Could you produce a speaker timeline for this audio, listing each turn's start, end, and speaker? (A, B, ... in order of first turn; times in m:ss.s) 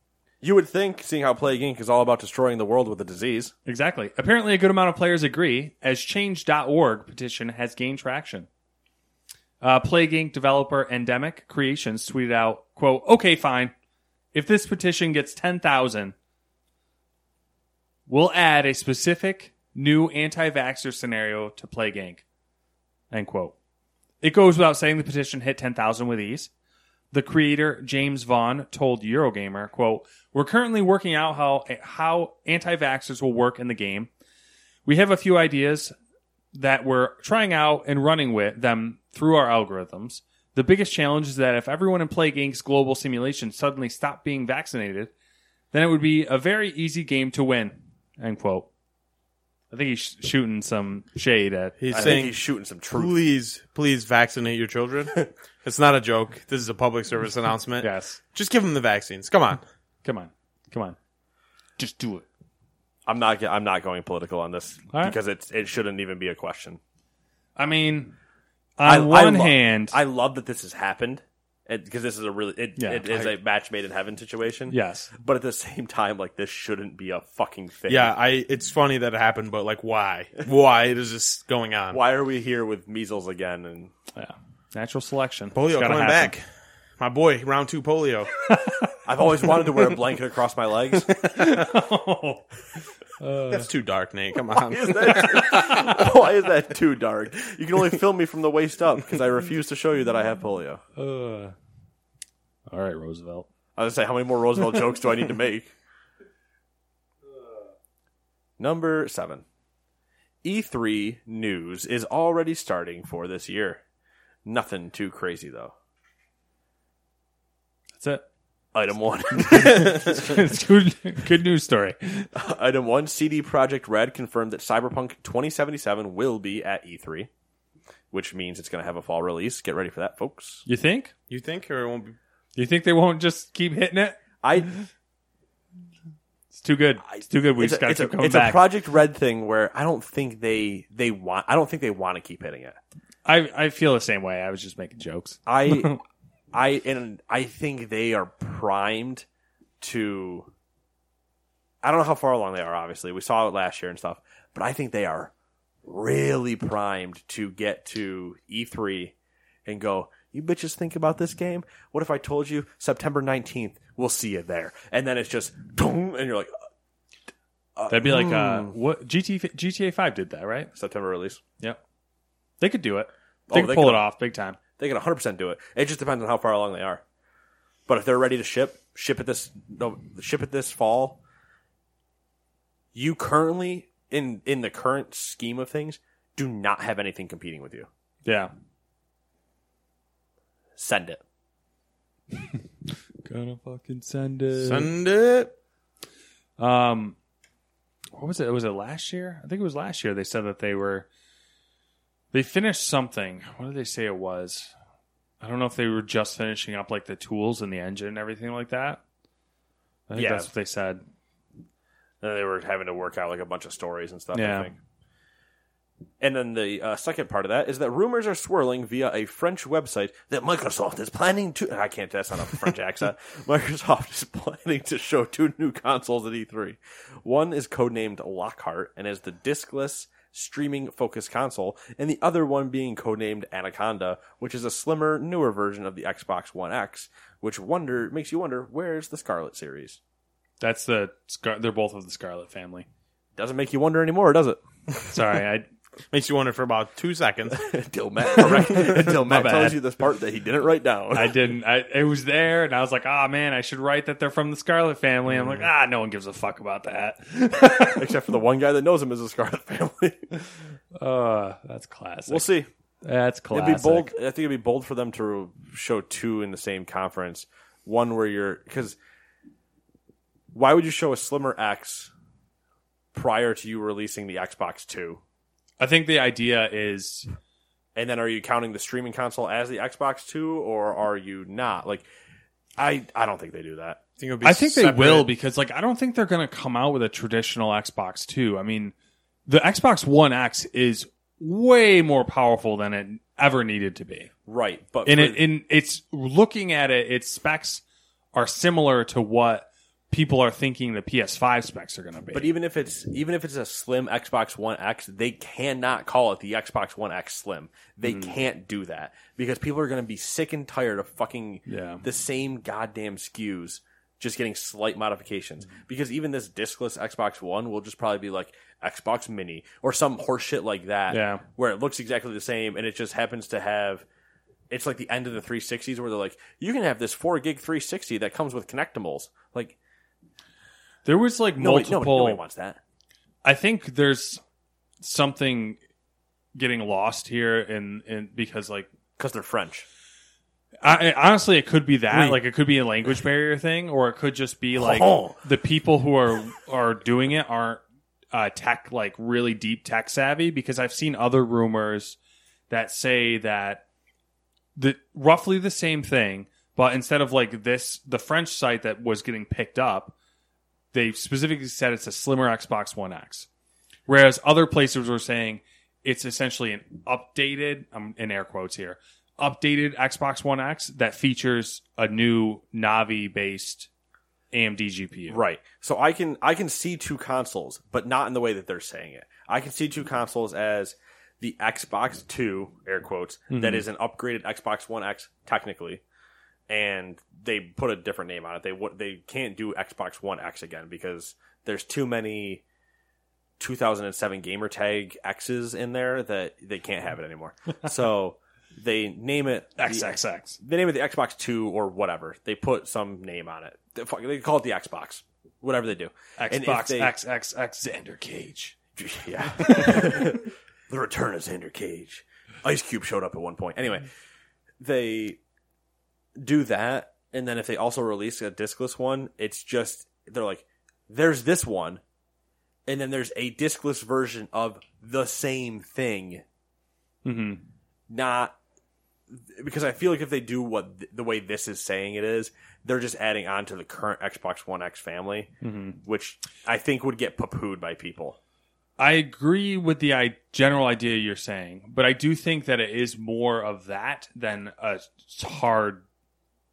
0:00.4-0:03.5 A
0:03.7-0:08.5 B
0:09.6-0:13.7 B
0:14.3-0:16.1 B
0:18.1-0:22.2 B
0:23.1-0:23.5 B
0:24.2-0:26.5 B
0:27.1-0:34.1 B
0:34.8-0:35.9 B
0:36.5-0:45.1 B
0:45.7-0:48.7 B
0:49.7-0:52.2 B
0:51.8-0:52.4 C
0:51.9-0:53.2 A
0:52.9-0:59.6 C
0:57.8-0:58.2 B
1:00.0-1:01.0 B
1:01.8-1:02.2 B
1:03.0-1:06.8 A
1:07.6-1:08.1 B
1:08.8-1:10.0 B
1:08.8-1:18.1 A
1:12.8-1:13.1 B
1:14.7-1:15.1 B
1:17.9-1:22.0 C
1:21.9-1:23.9 A
1:24.1-1:26.3 B
1:25.5-1:26.4 C
1:27.0-1:28.3 C
1:29.0-1:31.1 A
1:31.2-1:32.4 B
1:33.2-1:33.7 B
1:33.5-1:35.8 C
1:34.7-1:40.8 A
1:41.0-1:41.5 B
1:42.7-1:43.5 B
1:43.8-1:45.7 A
1:48.6-1:49.4 A
1:50.4-1:53.8 A
1:54.4-1:55.7 A
1:58.0-1:58.2 B
1:58.7-2:00.2 A
1:59.4-2:02.3 B
2:02.3-2:07.3 A
2:08.1-2:10.6 A
2:10.6-2:11.1 B
2:11.3-2:12.2 C
2:12.6-2:14.2 B
2:14.4-2:14.7 A
2:16.5-2:18.6 B
2:17.1-2:22.8 A
2:23.2-2:26.0 B
2:25.5-2:26.0 A
2:26.5-2:29.2 A
2:29.8-2:30.5 A
2:31.8-2:35.3 A
2:35.8-2:39.1 A
2:39.6-2:46.5 A
2:47.8-2:48.7 A
2:47.9-2:50.7 B
2:50.7-2:51.4 A
2:52.6-2:54.6 B
2:53.5-2:54.0 A
2:54.8-2:57.0 A
2:57.9-3:01.2 A
3:02.9-3:07.9 A
3:08.2-3:08.5 B
3:10.8-3:11.2 A
3:13.2-3:14.9 B
3:14.6-3:15.5 C
3:16.6-3:17.2 B
3:18.2-3:21.1 B
3:22.3-3:24.7 B
3:25.4-3:29.0 B
3:30.1-3:31.0 B
3:30.1-3:30.5 A
3:32.2-3:34.8 A
3:34.3-3:34.7 B
3:36.2-4:00.0 A
4:00.6-4:02.8 B
4:03.4-4:04.6 A
4:05.1-4:05.7 B
4:06.1-4:07.6 C
4:07.5-4:11.3 A
4:09.0-4:09.8 B
4:11.1-4:18.0 B
4:17.9-4:20.3 A
4:21.0-4:22.4 B
4:22.3-4:22.7 A
4:23.0-4:24.1 B
4:23.5-4:29.0 A
4:30.5-4:32.1 A
4:33.1-4:35.2 A
4:35.8-4:37.3 B
4:37.9-4:42.0 A
4:42.8-4:44.0 A
4:44.2-4:45.3 C
4:44.4-4:48.9 B
4:49.5-4:54.3 B
4:54.5-4:55.4 A
4:55.0-4:57.8 B
4:58.3-5:02.5 B
5:02.3-5:24.0 A
5:08.0-5:08.4 B
5:11.7-5:12.0 B
5:21.1-5:21.4 B
5:24.7-5:29.7 A
5:31.0-5:32.4 B
5:31.6-5:32.8 A
5:33.4-5:34.4 B
5:35.0-5:35.8 B
5:36.5-5:38.9 B
5:39.2-5:39.8 A
5:40.8-5:47.8 B
5:44.8-5:45.4 A
5:48.3-5:52.2 B
5:52.7-5:53.8 B
5:54.8-6:00.1 B
6:00.9-6:03.5 B
6:04.1-6:13.9 B
6:14.5-6:15.4 B
6:15.3-6:26.0 A
6:23.5-6:23.8 B
6:26.7-6:32.6 A
6:33.6-6:47.1 A
6:39.8-6:40.6 B
6:46.4-6:48.7 B
6:49.0-6:54.1 A
6:49.7-6:50.0 B
6:54.8-6:55.4 A
6:56.4-7:02.0 A
7:02.9-7:06.4 A
7:07.2-7:07.6 B
7:08.1-7:08.5 A
7:09.3-7:15.5 A
7:15.6-7:16.0 B
7:16.0-7:18.4 A
7:19.0-7:26.0 B